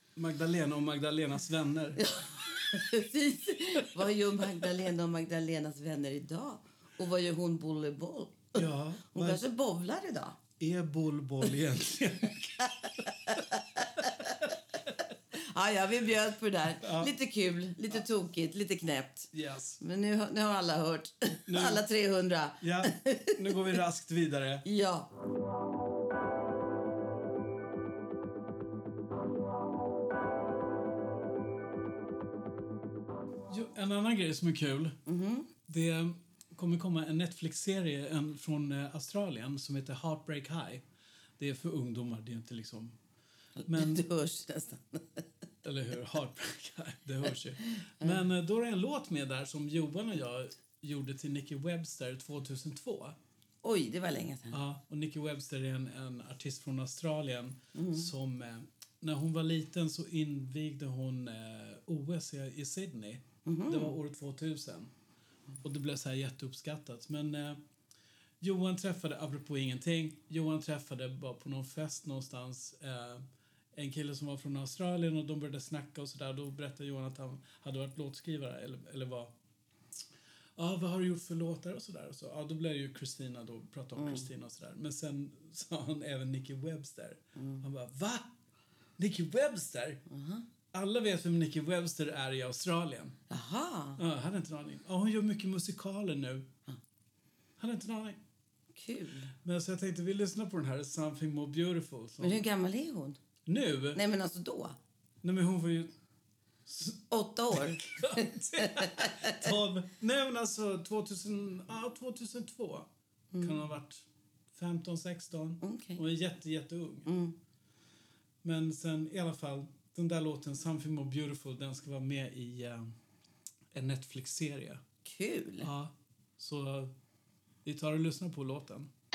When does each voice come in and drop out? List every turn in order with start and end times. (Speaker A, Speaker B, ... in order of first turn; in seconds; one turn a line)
Speaker A: 0.1-2.2
Speaker B: 2.0-10.4
Speaker A: 8.5-9.4
Speaker A: 10.6-12.7
Speaker B: 12.6-14.4
Speaker B: 15.3-23.8
Speaker A: 16.8-17.1
Speaker A: 19.3-19.8
Speaker A: 21.5-21.8
Speaker A: 22.6-24.6
Speaker B: 24.6-25.1
Speaker A: 33.5-35.0
Speaker B: 35.0-35.5
Speaker A: 35.7-40.8
Speaker A: 41.4-43.0
Speaker B: 43.6-45.2
Speaker A: 43.7-44.0
Speaker A: 45.6-53.2
Speaker B: 47.8-48.2
Speaker B: 53.6-54.6
Speaker A: 54.5-64.9
Speaker B: 57.7-58.1
Speaker B: 63.4-64.0
Speaker A: 65.6-67.6
Speaker A: 68.4-79.3
Speaker A: 80.5-88.3
Speaker B: 84.0-84.3
Speaker B: 87.3-87.6
Speaker A: 89.0-90.0
Speaker B: 90.1-90.4
Speaker A: 90.7-93.2
Speaker B: 93.3-94.0
Speaker A: 94.0-96.5
Speaker A: 97.6-98.2
Speaker B: 98.7-99.3
Speaker A: 99.4-102.4
Speaker B: 102.2-103.2
Speaker A: 103.5-104.0
Speaker B: 103.9-104.8
Speaker A: 105.2-105.9
Speaker A: 106.7-107.0
Speaker B: 107.1-109.5
Speaker A: 107.5-117.1
Speaker B: 113.3-113.6
Speaker B: 115.6-116.0
Speaker B: 117.0-117.3
Speaker A: 118.4-122.9
Speaker A: 123.7-124.8
Speaker B: 125.0-125.7
Speaker A: 125.6-126.9
Speaker A: 127.6-128.9